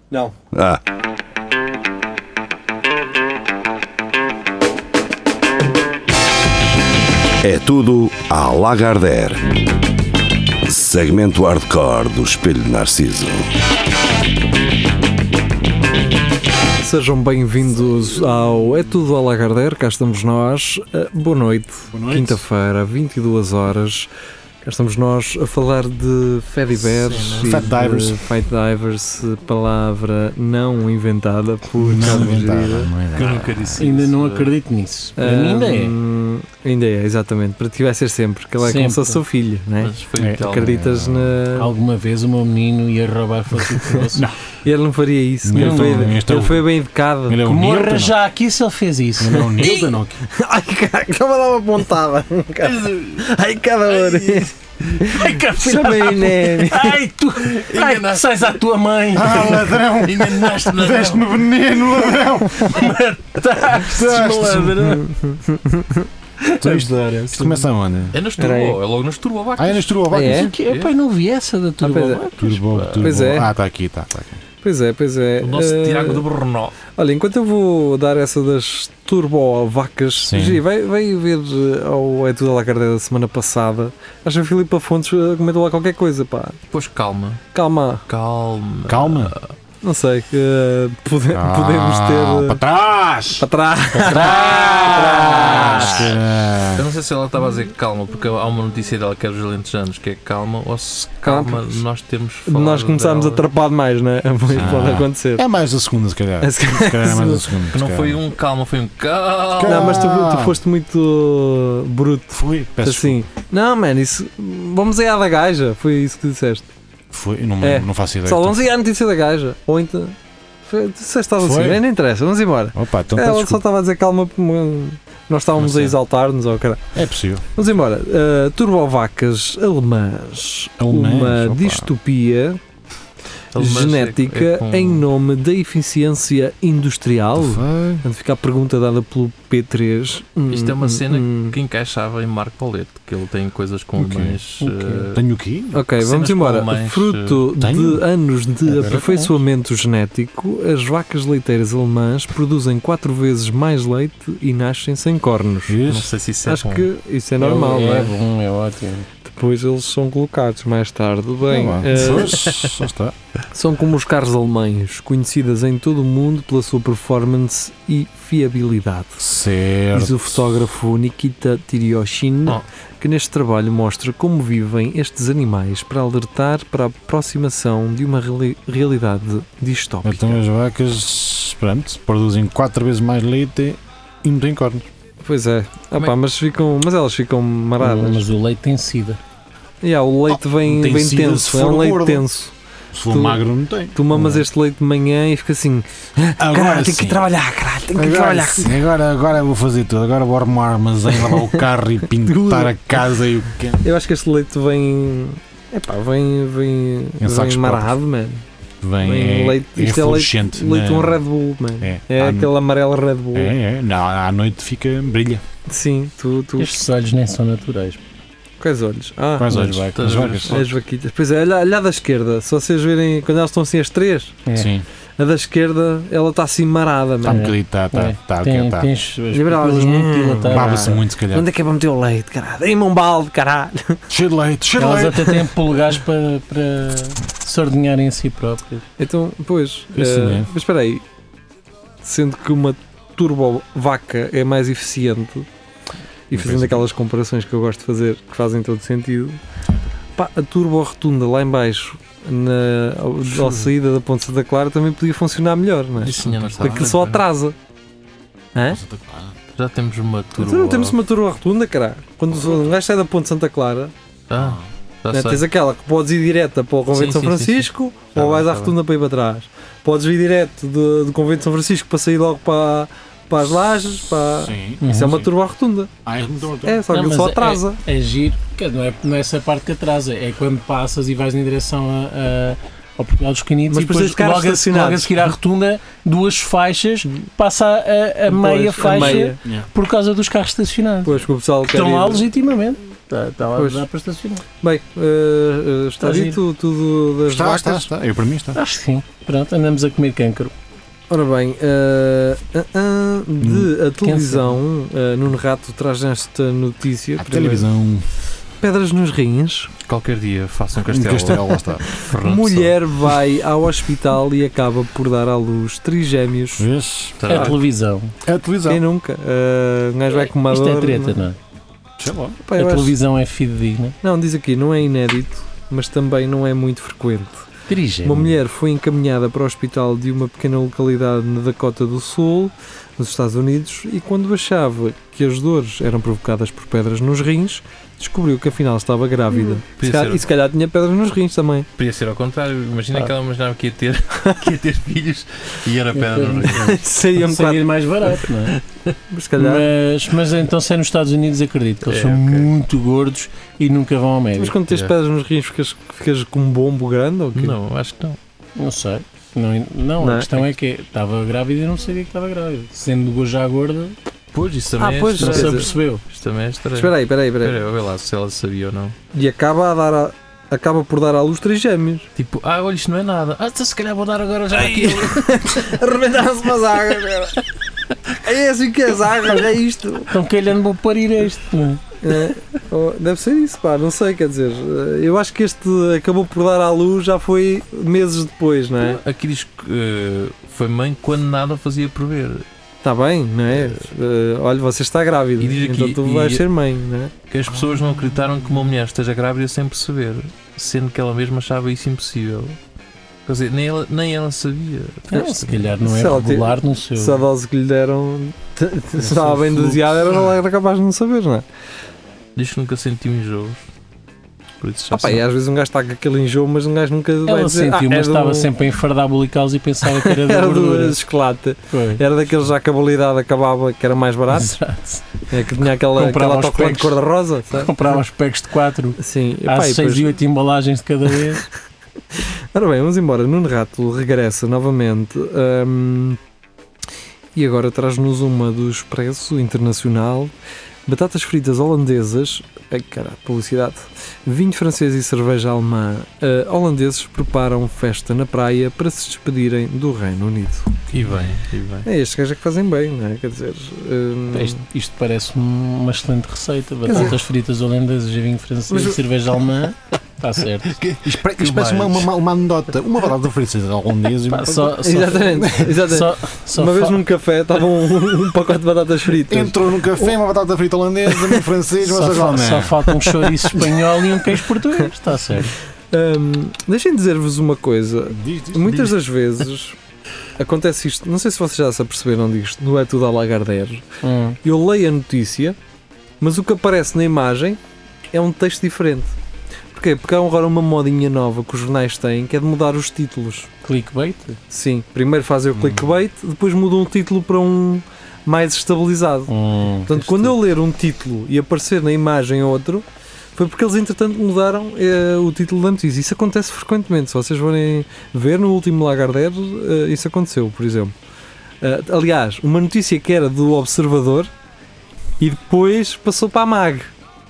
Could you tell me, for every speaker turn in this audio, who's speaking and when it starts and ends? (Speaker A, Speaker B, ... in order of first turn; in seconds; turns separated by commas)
Speaker A: 0.5-0.8, Speaker A: 7.4-9.5, Speaker A: 10.6-13.5, Speaker B: 16.8-24.1, Speaker C: 21.9-22.4, Speaker B: 24.6-32.9, Speaker C: 26.8-28.2, Speaker C: 31.8-33.9, Speaker D: 33.1-34.5, Speaker E: 33.8-35.9, Speaker B: 35.2-41.7, Speaker E: 38.6-39.2, Speaker D: 39.8-40.8, Speaker C: 40.2-41.4, Speaker E: 41.5-44.2, Speaker C: 44.1-44.4, Speaker B: 44.6-47.4, Speaker C: 45.4-46.7, Speaker E: 45.5-46.5, Speaker C: 47.3-48.2, Speaker E: 47.4-49.7, Speaker C: 49.2-50.2, Speaker B: 49.6-57.0, Speaker D: 52.6-53.2, Speaker D: 53.9-54.5, Speaker E: 55.0-65.0, Speaker D: 57.5-58.5, Speaker C: 59.1-63.0, Speaker D: 59.5-61.2, Speaker C: 63.8-64.8, Speaker B: 64.8-66.1, Speaker E: 66.4-67.7, Speaker C: 66.6-68.2, Speaker D: 68.1-70.0, Speaker B: 68.4-68.8, Speaker C: 69.6-70.6, Speaker B: 70.1-70.5, Speaker E: 70.2-73.1, Speaker D: 70.7-70.9, Speaker B: 71.8-72.3, Speaker C: 72.4-74.4, Speaker B: 73.0-73.5, Speaker B: 74.6-76.2, Speaker D: 75.4-76.8, Speaker B: 76.9-86.6, Speaker C: 80.2-80.6, Speaker D: 86.7-87.4, Speaker B: 87.5-88.0, Speaker D: 88.1-89.5, Speaker C: 88.8-89.3, Speaker B: 89.8-92.6, Speaker C: 91.3-96.8, Speaker B: 93.4-96.1, Speaker E: 94.3-94.9, Speaker D: 96.7-103.5, Speaker B: 101.2-101.8, Speaker B: 102.5-105.4, Speaker C: 104.5-108.2, Speaker B: 106.4-107.5, Speaker D: 107.7-110.0, Speaker C: 109.5-110.6, Speaker B: 109.6-116.7, Speaker C: 112.3-113.2, Speaker C: 117.1-118.6, Speaker B: 117.6-126.9, Speaker C: 121.4-121.8, Speaker C: 122.7-123.6, Speaker C: 125.6-125.9, Speaker C: 126.9-127.4, Speaker B: 127.5-132.6, Speaker C: 130.8-131.9, Speaker D: 133.5-135.0, Speaker B: 133.6-141.6, Speaker C: 137.3-138.0, Speaker D: 140.5-145.2, Speaker C: 143.9-144.4, Speaker E: 144.6-145.1, Speaker C: 145.1-145.8, Speaker B: 145.7-155.8, Speaker D: 145.9-147.4, Speaker C: 147.6-148.0, Speaker C: 148.6-149.0, Speaker E: 148.8-149.3, Speaker C: 155.7-156.1, Speaker D: 155.9-156.9, Speaker B: 156.4-158.2, Speaker E: 157.4-159.1, Speaker B: 159.2-162.4, Speaker C: 161.4-163.1, Speaker D: 162.3-162.7, Speaker B: 163.5-169.2, Speaker C: 169.2-170.5, Speaker B: 169.9-180.4, Speaker C: 180.0-184.9, Speaker B: 185.2-188.2, Speaker E: 187.8-189.2, Speaker B: 189.8-192.5, Speaker C: 190.3-192.2, Speaker C: 192.9-194.4, Speaker B: 193.1-198.8, Speaker C: 196.4-197.2, Speaker C: 197.9-203.8, Speaker B: 201.2-201.5, Speaker B: 202.1-202.8, Speaker B: 203.8-208.4, Speaker C: 207.2-208.0, Speaker C: 208.8-211.2, Speaker B: 209.0-213.5, Speaker C: 211.8-212.5, Speaker C: 213.3-215.4, Speaker B: 215.7-216.8, Speaker E: 216.6-218.0, Speaker B: 218.6-219.5, Speaker C: 219.4-220.7, Speaker E: 219.5-220.3, Speaker D: 219.9-220.7, Speaker B: 220.5-224.4, Speaker E: 224.4-224.7, Speaker C: 224.5-224.8, Speaker B: 225.2-227.5, Speaker C: 227.2-228.9, Speaker E: 227.2-231.0, Speaker B: 229.3-234.0, Speaker C: 230.5-231.5, Speaker C: 234.1-235.4, Speaker E: 234.8-238.8, Speaker B: 239.0-241.0, Speaker C: 239.9-240.5, Speaker B: 242.0-245.5, Speaker B: 246.3-249.4, Speaker C: 246.3-246.9, Speaker B: 250.2-257.5, Speaker D: 256.0-257.2, Speaker C: 256.1-257.0, Speaker B: 258.5-258.8, Speaker C: 258.7-259.4, Speaker D: 259.6-260.9, Speaker B: 260.4-263.9, Speaker D: 264.3-265.4, Speaker C: 264.3-264.7, Speaker B: 265.1-275.9, Speaker D: 266.9-268.7, Speaker C: 268.1-268.4, Speaker C: 274.4-275.3, Speaker E: 274.8-275.2, Speaker C: 276.0-276.9, Speaker B: 276.6-277.8, Speaker E: 276.9-294.4, Speaker B: 283.7-285.1, Speaker B: 288.3-289.4, Speaker C: 289.4-289.7, Speaker B: 291.0-292.3, Speaker B: 293.6-293.8, Speaker B: 294.6-297.9, Speaker E: 296.0-296.4, Speaker C: 297.3-298.6, Speaker E: 298.5-300.5, Speaker B: 301.1-307.7, Speaker C: 303.4-303.7, Speaker E: 304.0-304.6, Speaker C: 307.2-308.1, Speaker B: 308.6-309.7, Speaker D: 309.9-313.1, Speaker C: 310.8-311.8, Speaker B: 311.9-316.7, Speaker C: 316.6-317.3, Speaker D: 317.2-317.6, Speaker E: 317.3-318.1, Speaker C: 318.2-318.8, Speaker B: 318.6-321.2, Speaker E: 320.3-321.4, Speaker C: 322.0-322.4, Speaker B: 322.4-322.9, Speaker E: 322.6-323.9, Speaker B: 324.0-327.5, Speaker E: 327.7-328.4, Speaker B: 328.0-341.7, Speaker D: 339.8-340.3, Speaker D: 341.8-346.8, Speaker E: 345.9-348.6, Speaker B: 346.6-347.7, Speaker D: 348.5-348.9, Speaker B: 349.1-349.7, Speaker E: 349.4-354.6, Speaker D: 351.8-352.5, Speaker B: 354.4-357.6, Speaker D: 357.3-358.2, Speaker E: 358.6-363.9, Speaker B: 360.0-360.4, Speaker D: 364.3-368.9, Speaker B: 364.8-365.7, Speaker E: 365.1-366.0, Speaker B: 366.7-367.6, Speaker B: 369.1-372.1, Speaker D: 372.1-375.8, Speaker B: 374.5-377.4, Speaker B: 378.2-380.1, Speaker E: 380.1-381.8, Speaker B: 382.0-389.0, Speaker D: 388.8-392.4, Speaker B: 392.8-397.1, Speaker D: 393.6-393.8, Speaker D: 395.4-396.4, Speaker D: 397.3-402.6, Speaker D: 403.2-405.6, Speaker E: 405.1-407.2, Speaker B: 405.1-411.4, Speaker E: 409.0-409.8, Speaker D: 412.4-413.6, Speaker D: 414.6-415.2, Speaker B: 414.9-418.5, Speaker E: 417.2-421.0, Speaker B: 419.8-424.6, Speaker E: 421.7-422.0, Speaker E: 424.3-427.0, Speaker B: 425.3-427.7, Speaker E: 427.5-431.4, Speaker B: 429.0-430.1, Speaker B: 432.5-436.2, Speaker B: 437.3-440.3, Speaker B: 440.9-450.8, Speaker D: 450.9-451.9, Speaker B: 451.8-454.6, Speaker E: 454.3-460.8, Speaker B: 456.9-457.2, Speaker B: 458.7-459.0, Speaker D: 460.7-462.1, Speaker C: 461.0-465.8, Speaker E: 464.3-467.0, Speaker B: 464.8-470.1, Speaker C: 469.3-472.8, Speaker E: 471.8-475.5, Speaker B: 472.9-473.8, Speaker B: 475.9-479.8, Speaker C: 478.1-479.0, Speaker B: 480.4-483.8, Speaker E: 484.0-484.4, Speaker B: 484.4-485.6, Speaker B: 486.2-487.6, Speaker B: 488.1-489.1, Speaker B: 489.7-493.5, Speaker E: 493.6-494.4, Speaker B: 494.5-499.3, Speaker C: 495.5-495.9, Speaker E: 499.3-500.0, Speaker B: 499.9-510.9, Speaker B: 511.6-514.3, Speaker B: 515.2-516.9